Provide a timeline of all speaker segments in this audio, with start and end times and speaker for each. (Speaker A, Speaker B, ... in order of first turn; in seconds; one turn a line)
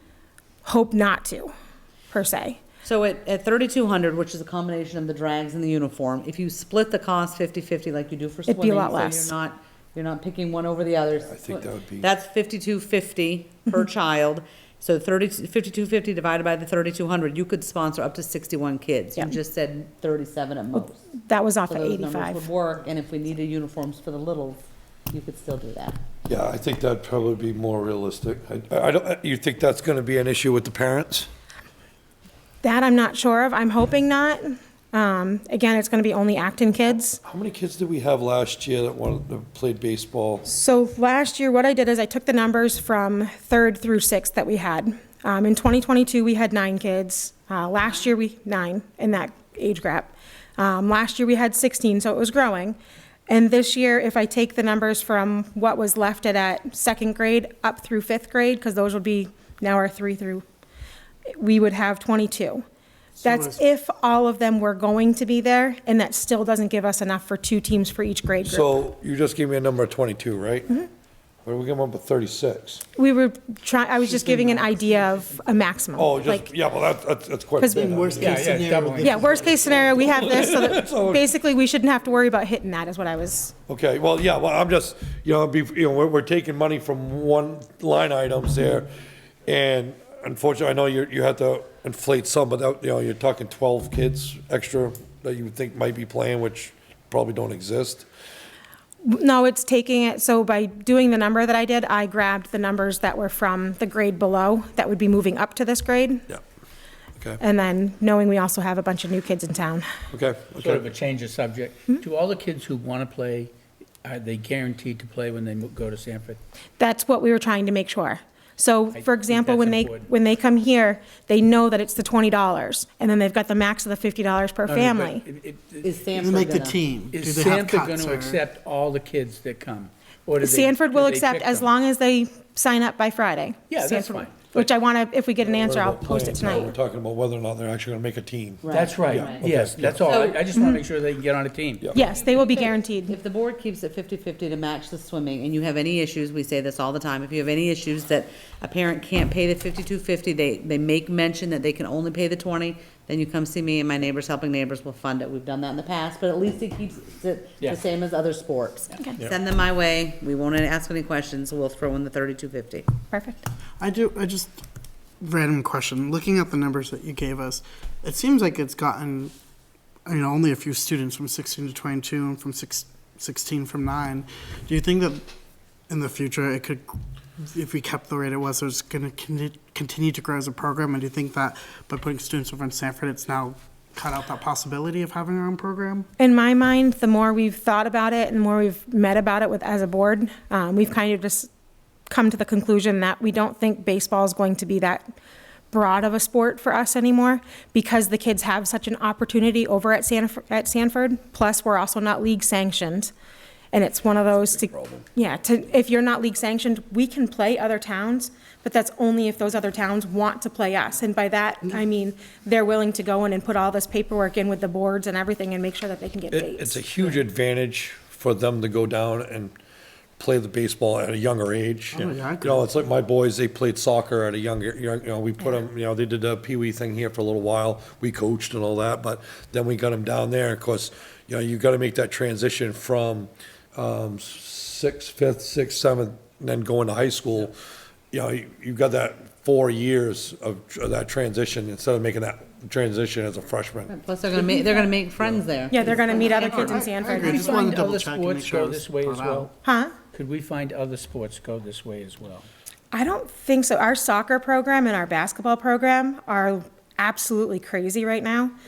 Speaker A: 0.6-1.5
Speaker A: 2.1-2.6
Speaker B: 2.8-21.0
Speaker A: 8.5-9.3
Speaker C: 11.2-12.1
Speaker A: 20.7-22.5
Speaker B: 21.7-26.0
Speaker C: 26.2-31.3
Speaker A: 32.6-37.2
Speaker C: 37.2-40.4
Speaker A: 40.4-52.8
Speaker A: 53.3-60.4
Speaker A: 61.3-62.6
Speaker D: 63.2-63.6
Speaker A: 63.2-68.7
Speaker C: 68.4-70.8
Speaker C: 71.4-72.8
Speaker A: 73.0-76.5
Speaker D: 74.1-74.5
Speaker E: 74.5-75.2
Speaker C: 75.9-78.9
Speaker A: 77.6-78.2
Speaker D: 77.7-80.2
Speaker E: 78.2-79.5
Speaker A: 79.0-83.5
Speaker C: 80.0-81.3
Speaker C: 83.7-88.9
Speaker C: 89.5-98.1
Speaker A: 99.0-106.3
Speaker A: 107.4-109.9
Speaker C: 110.1-110.8
Speaker E: 110.6-113.5
Speaker E: 114.0-116.4
Speaker A: 116.8-125.2
Speaker E: 118.9-120.1
Speaker E: 124.7-125.9
Speaker B: 125.8-126.8
Speaker D: 126.2-128.4
Speaker E: 127.1-131.7
Speaker A: 130.4-136.7
Speaker E: 133.7-134.6
Speaker C: 135.4-140.3
Speaker B: 138.6-140.5
Speaker E: 138.7-141.8
Speaker A: 140.5-140.8
Speaker A: 141.9-143.2
Speaker B: 141.9-162.8
Speaker A: 163.1-163.5
Speaker D: 163.8-164.6
Speaker D: 165.2-169.3
Speaker D: 170.1-175.2
Speaker D: 175.9-186.1
Speaker A: 186.2-191.5
Speaker A: 192.1-195.0
Speaker A: 195.7-203.1
Speaker A: 203.7-217.1
Speaker C: 204.7-205.0
Speaker C: 216.3-219.5
Speaker C: 220.2-237.5
Speaker D: 221.9-222.6
Speaker C: 238.1-243.9
Speaker B: 243.9-246.8
Speaker A: 245.7-247.8
Speaker D: 246.2-249.5
Speaker E: 247.3-249.5
Speaker A: 249.6-249.9
Speaker E: 250.1-252.5
Speaker A: 252.9-258.5